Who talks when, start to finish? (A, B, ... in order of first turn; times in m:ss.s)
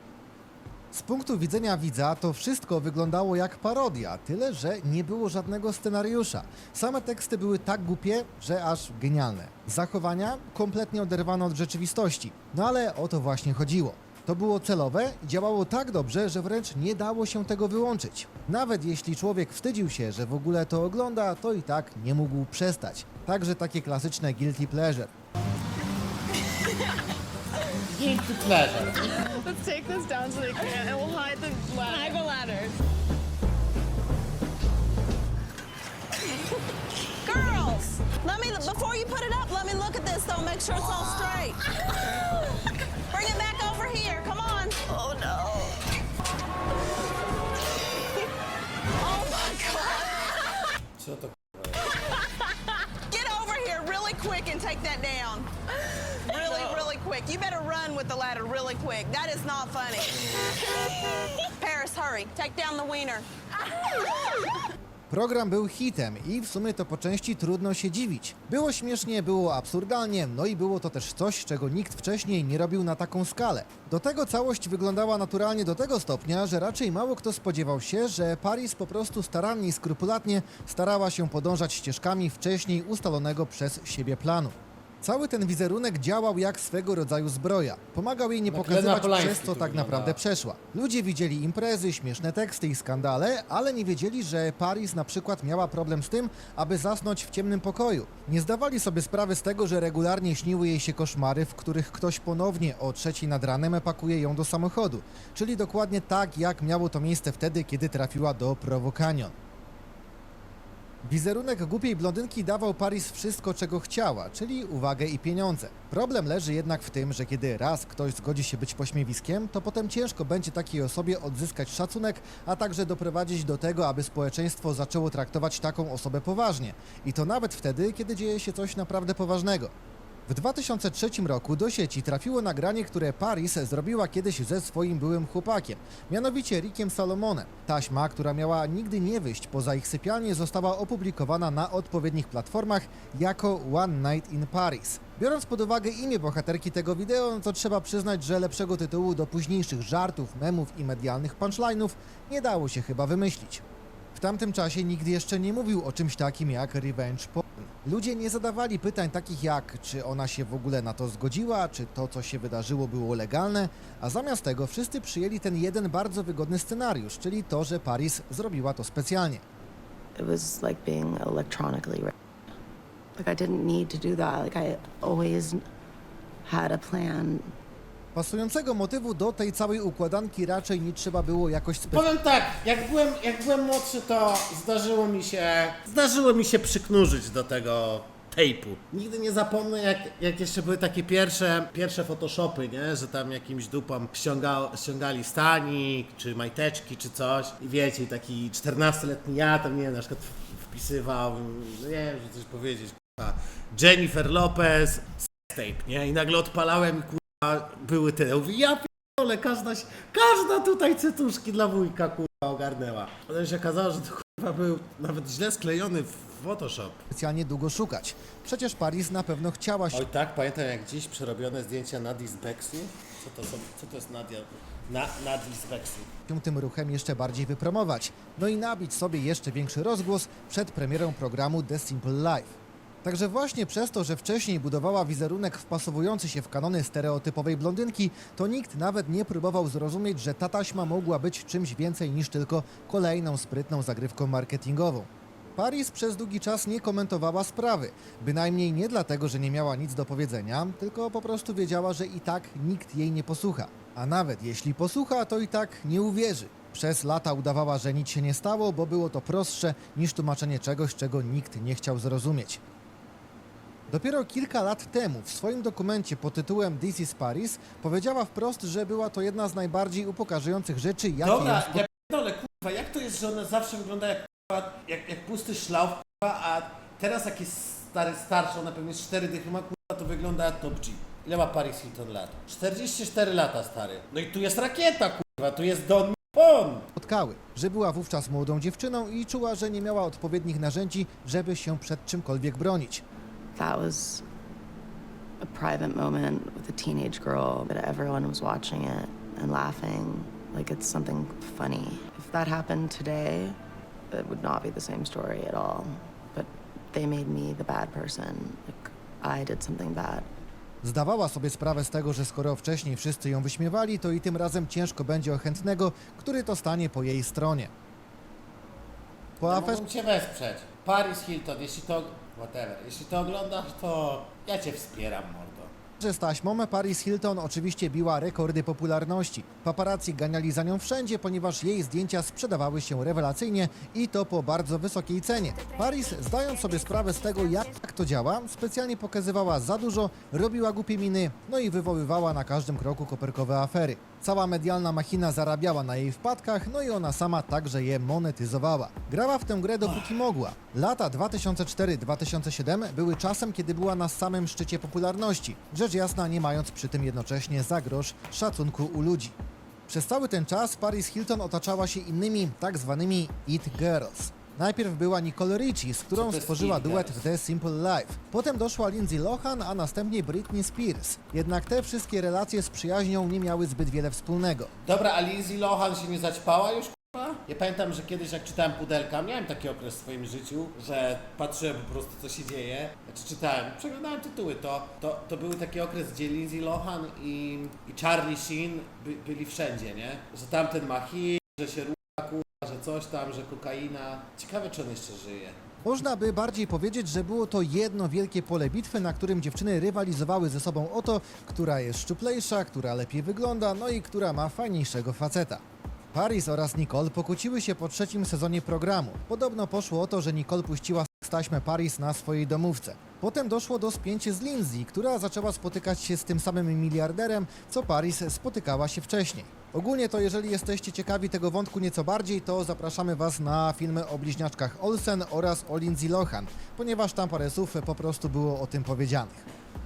0:00.9-0:25.1 A
0:27.9-0:29.1 B
0:29.2-0:32.2 C
0:31.8-0:32.8 D
0:37.2-0:41.6 D
0:43.1-0:45.7 D
0:49.0-0:50.4 D
0:51.0-0:51.8 B
0:53.1-0:55.5 D
0:56.2-1:00.1 D
1:01.3-1:03.3 D
1:05.1-1:49.3 A
1:28.5-1:30.2 B
1:51.0-2:09.7 A
2:10.3-2:33.6 A
2:34.1-2:49.4 A
2:50.2-2:52.1 E
2:53.2-2:55.6 E
2:56.4-2:57.5 E
2:58.1-3:02.1 A
3:01.9-3:37.0 B
3:37.1-3:40.0 A
3:39.9-3:46.1 B
3:46.3-4:22.6 A
4:23.9-4:31.9 A
4:31.2-4:46.9 B
4:46.9-4:53.0 A
4:53.6-4:54.2 E
4:55.4-5:03.6 E
5:04.1-5:10.3 E
5:10.8-5:17.7 A
5:19.4-5:19.8 A
5:19.4-5:25.7 B
5:26.0-5:59.4 A
5:59.9-6:14.7 A
6:06.1-6:07.2 B
6:14.8-6:35.6 B
6:35.8-6:45.6 A
6:46.1-7:09.4 A